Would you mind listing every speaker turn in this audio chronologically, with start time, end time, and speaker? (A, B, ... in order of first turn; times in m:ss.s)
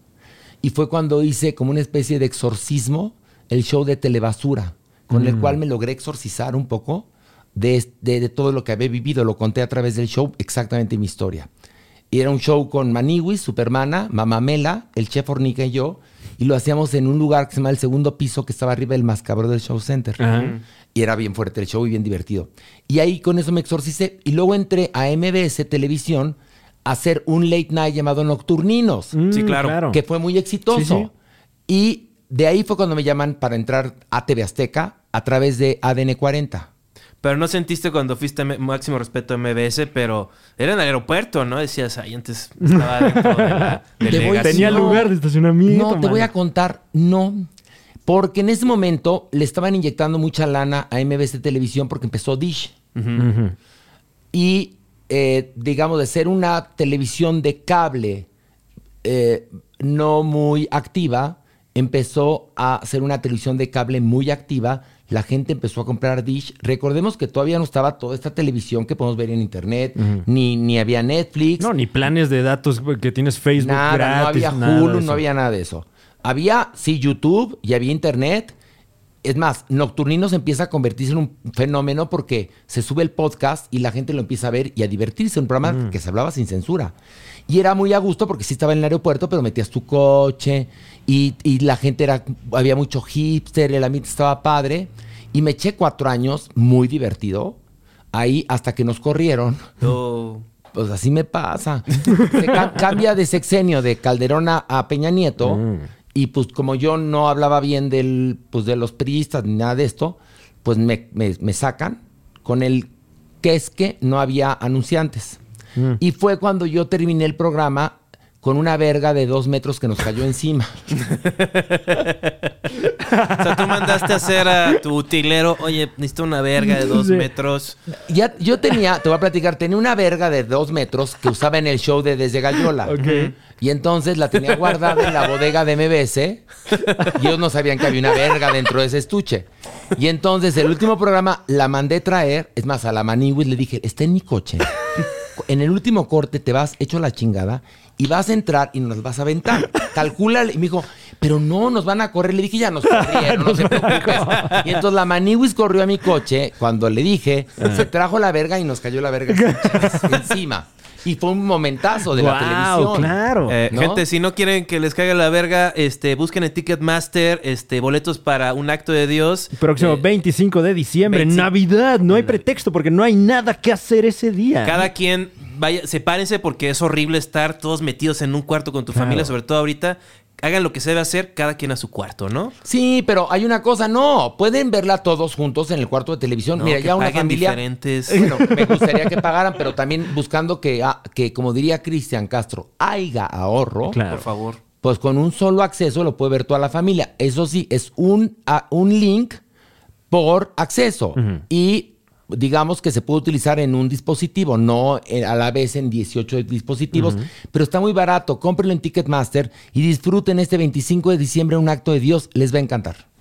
0:00.6-0:11.5 A
0:05.1-0:05.6 B
0:12.1-0:20.2 A
0:20.2-0:20.6 B
0:20.3-0:20.6 C
0:20.9-0:29.2 A
0:29.1-0:30.0 B
0:29.3-0:29.8 C
0:29.9-0:31.1 A
0:30.7-0:31.1 B
0:31.7-0:36.7 A
0:37.2-0:45.0 C
0:42.6-0:46.3 B
0:44.1-0:45.1 A
0:45.6-0:47.5 A
0:48.1-0:52.7 A
0:53.0-0:53.2 C
0:53.2-0:53.6 B
0:54.3-0:58.3 A
0:59.0-1:11.7 A
1:10.0-1:10.2 B
1:11.6-1:15.2 B
1:13.6-1:18.5 A
1:19.2-1:27.0 A
1:27.5-1:37.6 A
1:38.1-1:39.7 A
1:39.8-1:40.4 C
1:40.7-1:52.9 A
1:45.4-1:45.9 B
1:53.4-1:55.4 A
1:56.0-2:01.0 A
2:01.0-2:02.5 C
2:02.8-2:04.8 B
2:03.3-2:07.8 C
2:06.6-2:07.3 B
2:08.1-2:13.0 A
2:12.8-2:13.3 B
2:13.0-2:13.3 C
2:13.5-2:16.4 A
2:17.1-2:24.7 A
2:25.4-2:43.2 A
2:32.9-2:34.6 B
2:37.6-2:37.9 B
2:39.3-2:40.2 B
2:42.1-2:43.6 B
2:43.5-2:50.1 C
2:43.7-2:44.0 A
2:49.6-2:54.9 B
2:51.1-2:51.5 C
2:52.1-2:52.4 C
2:54.6-3:02.5 C
2:58.9-2:59.3 B
3:02.6-3:14.0 A
3:06.6-3:08.3 C
3:08.2-3:09.2 B
3:13.9-3:14.3 B
3:14.1-3:14.6 C
3:14.8-3:19.4 A
3:20.1-3:33.0 A
3:21.2-3:21.4 B
3:26.9-3:27.3 B